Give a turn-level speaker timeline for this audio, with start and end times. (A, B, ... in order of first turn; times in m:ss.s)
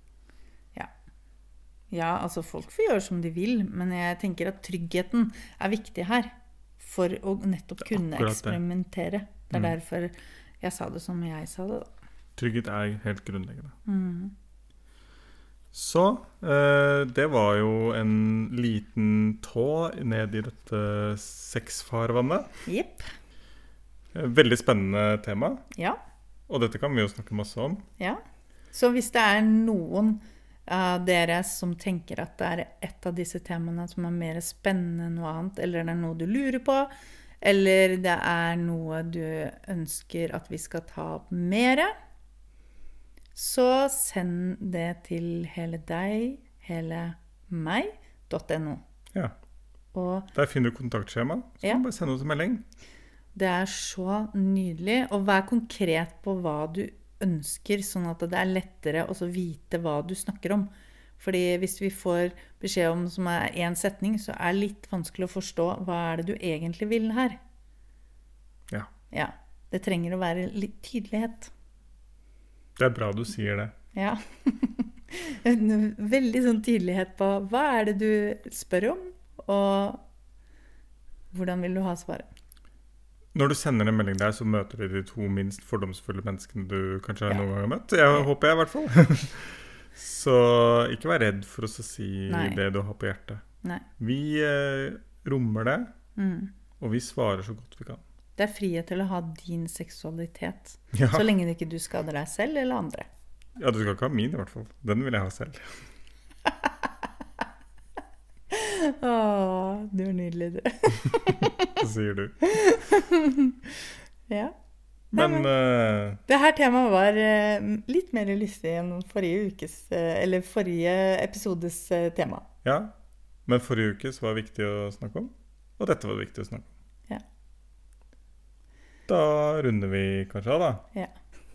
0:01.9-0:11.9 A
0:07.8-0:08.6 B
0:12.4-0:13.8 B
0:13.9-0:14.3 A
0:15.7-0:22.5 B
0:22.7-0:23.1 A
0:24.1-0:25.6 B
0:25.7-0:26.0 A
0:26.5-0:27.8 B
0:28.7-0:36.9 A
0:37.4-0:41.9 A
0:43.4-0:48.8 A
0:49.9-0:50.3 A
0:50.4-0:52.6 B
0:53.4-1:07.4 A
1:09.1-1:11.5 A
1:12.8-1:13.7 B
1:13.9-1:20.0 A
1:21.3-1:22.3 A
1:23.3-1:33.4 B
1:32.3-1:32.6 A
1:34.0-1:35.9 B
1:36.2-1:36.5 A
1:36.8-1:38.0 B
1:38.4-1:43.1 A
1:40.9-1:41.3 B
1:43.6-1:45.8 B
1:48.5-1:51.8 A
1:51.8-1:52.4 B
1:52.4-1:53.6 A
1:54.3-1:54.5 A
1:55.1-1:56.2 B
1:55.2-1:55.5 A
1:56.3-2:02.5 A
2:02.6-2:02.9 B
2:03.5-2:06.7 B
2:09.1-2:10.8 B